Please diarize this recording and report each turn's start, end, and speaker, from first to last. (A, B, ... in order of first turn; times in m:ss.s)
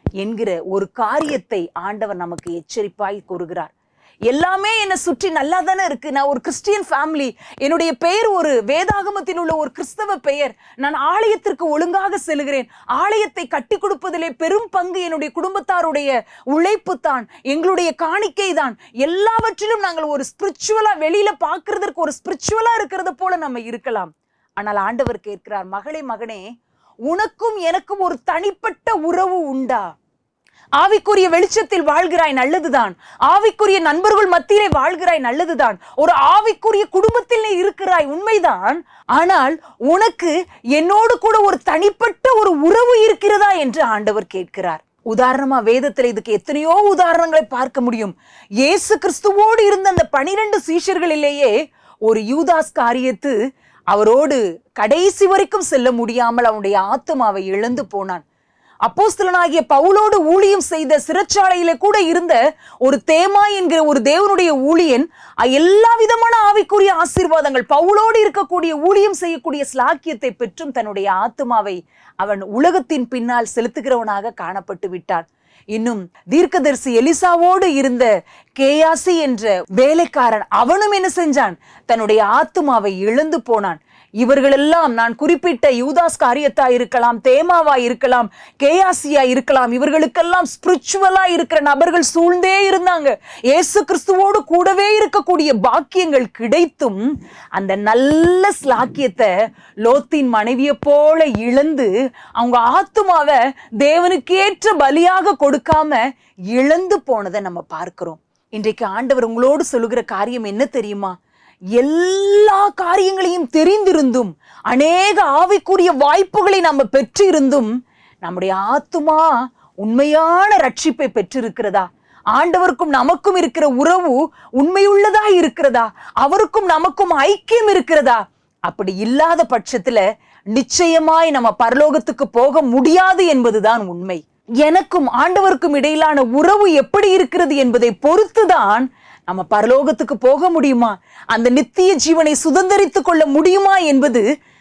0:00.2-0:03.7 A
0:04.3-0:26.4 A
0:27.1-0:29.8 A
0:30.8-0:51.5 A
0:52.0-0:53.3 A
0:53.9-0:58.2 A
0:58.8-1:37.0 A
1:37.6-1:39.3 A
1:39.8-1:46.0 A
1:46.5-1:51.1 A
1:51.8-1:57.7 A
1:58.2-2:10.0 A
2:10.5-2:24.2 A